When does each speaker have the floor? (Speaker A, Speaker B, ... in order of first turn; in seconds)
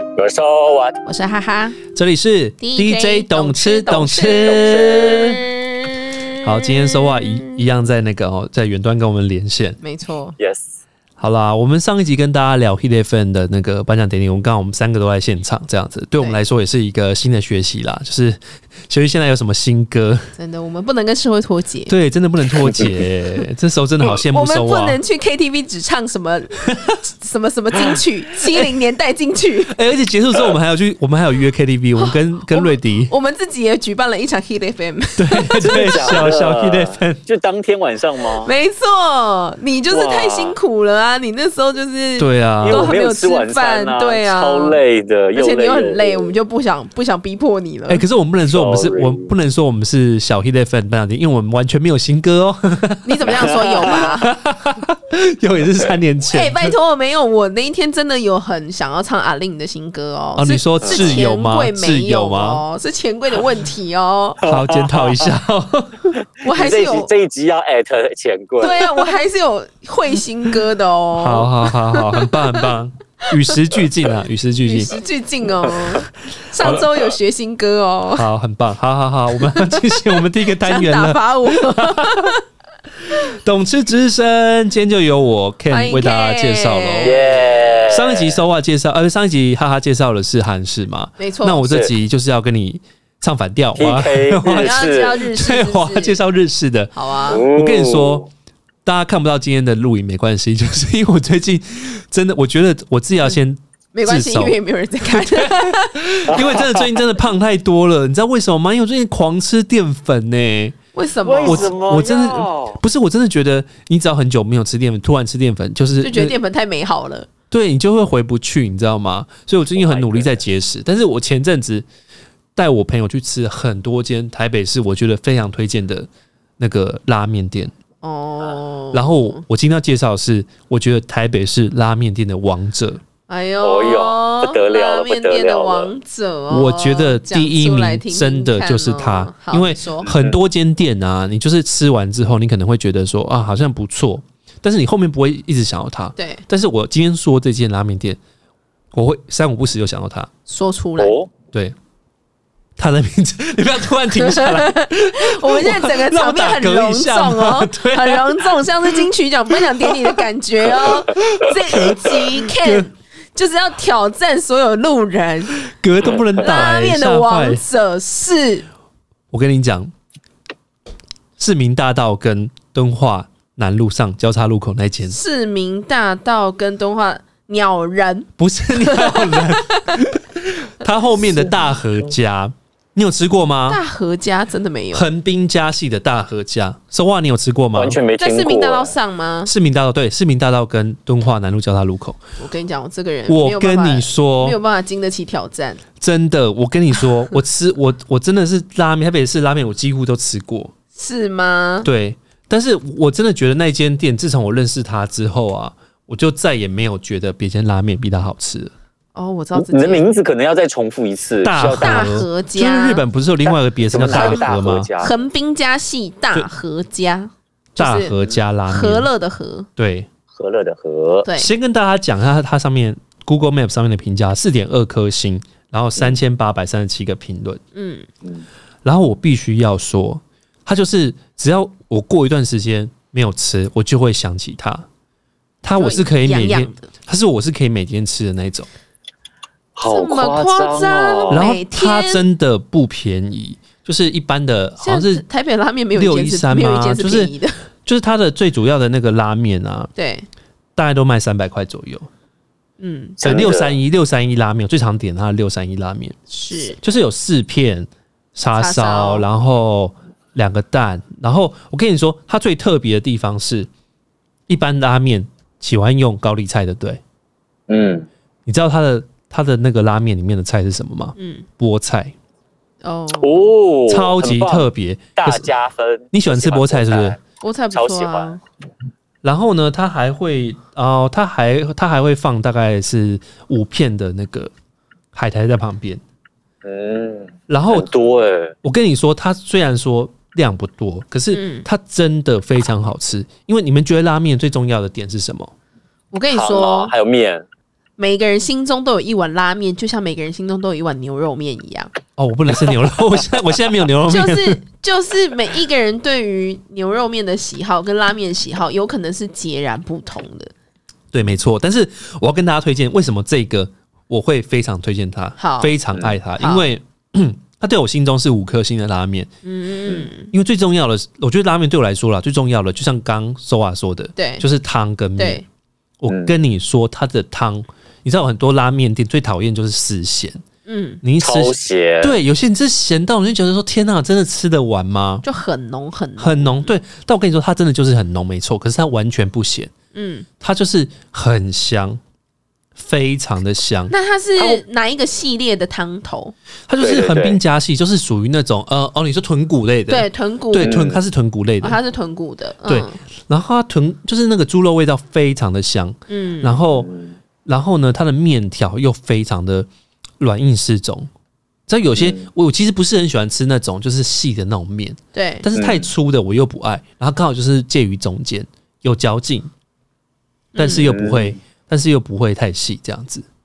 Speaker A: 0.1-1.0, 4.4-5.4, 10.4-10.8, 22.6-23.0, 35.6-38.5, 39.9-40.6, 42.6-46.3, 48.5-49.3, 53.2-54.1, 60.8-61.2, 64.4-65.3, 66.4-69.1, 87.0-88.4, 91.6-91.9, 93.7-95.2, 97.3-98.2, 106.3-106.9, 111.2-112.8, 119.8-120.3, 133.6-135.9, 151.0-151.3, 187.7-188.9, 209.6-212.2, 213.9-215.2, 220.3-221.3, 239.8-241.4, 253.2-253.8, 267.7-268.1, 273.2-277.2, 277.7-278.4, 286.6-288.5, 296.3-297.4, 326.1-326.3, 331.2-332.2, 344.4-344.6, 346.8-347.4, 350.6-351.0, 356.7-357.1, 361.9-362.3, 365.5-365.9, 370.6-371.3
Speaker B: 1.1-1.8, 2.6-7.3, 9.8-10.3, 20.4-21.9, 24.3-29.7, 32.0-36.2, 38.4-44.8, 45.3-48.0, 53.0-54.3, 56.3-64.4, 66.4-67.1, 68.6-72.7, 74.7-78.3, 79.4-82.4, 85.7-87.2, 91.2-91.7, 94.5-96.2, 96.9-97.4, 103.9-106.2, 110.9-111.8, 116.0-117.3, 128.0-129.4, 133.3-140.1, 146.2-146.4, 150.5-151.2, 154.1-165.6, 166.4-168.7, 175.1-180.0, 183.7-185.1, 188.2-189.5, 192.4-195.8, 200.9-201.9, 209.1-210.1, 211.8-213.0, 214.0-219.7, 221.2-221.5, 227.7-228.1, 235.8-236.9, 239.8-242.2, 244.8-247.6, 249.9-250.2, 252.8-253.2, 256.3-256.8, 258.6-259.2, 271.2-271.4, 272.8-273.5, 277.4-278.4, 291.3-291.6, 296.1-296.9, 298.0-301.9, 304.1-310.5, 315.4-315.8, 316.4-316.7, 319.4-320.3, 324.1-324.4, 325.2-325.4, 330.6-331.0, 335.2-336.7, 339.9-340.2, 343.9-346.3, 349.9-350.8, 351.6-353.0, 356.1-356.6, 365.1-365.5, 370.5-370.9
Speaker C: 1.9-5.4, 6.4-9.8, 11.2-20.3, 21.9-25.0, 29.7-33.1, 35.2-37.2, 42.2-42.9, 47.9-53.2, 53.9-56.7, 60.4-62.6, 64.4-66.1, 71.1-74.9, 78.2-82.3, 83.1-98.3, 98.8-104.6, 105.1-110.8, 111.4-116.3, 117.5-121.8, 122.5-126.1, 126.6-127.7, 128.9-133.0, 136.5-148.2, 148.9-150.3, 152.8-158.9, 159.8-160.1, 161.1-162.8, 165.6-167.6, 169.3-169.9, 171.4-175.2, 178.4-183.8, 184.9-188.0, 189.4-192.2, 193.3-194.6, 196.0-200.7, 201.8-208.7, 211.4-214.9, 217.8-219.1, 219.8-220.1, 221.3-227.6, 228.8-234.8, 235.6-238.7, 241.3-245.2, 245.9-247.3, 247.8-249.9, 250.8-252.1, 253.2-263.7, 264.5-267.0, 268.4-272.1, 273.9-275.5, 276.1-277.2, 279.2-284.5, 285.1-286.0, 287.5-287.9, 288.6-295.5, 302.2-304.6, 311.1-319.3, 320.3-325.4, 326.0-330.4, 331.0-335.2, 336.2-339.7, 340.4-342.0, 342.8-343.9, 346.7-351.8, 352.6-356.9, 357.4-359.7, 360.2-361.1, 361.7-369.5, 370.6-373.2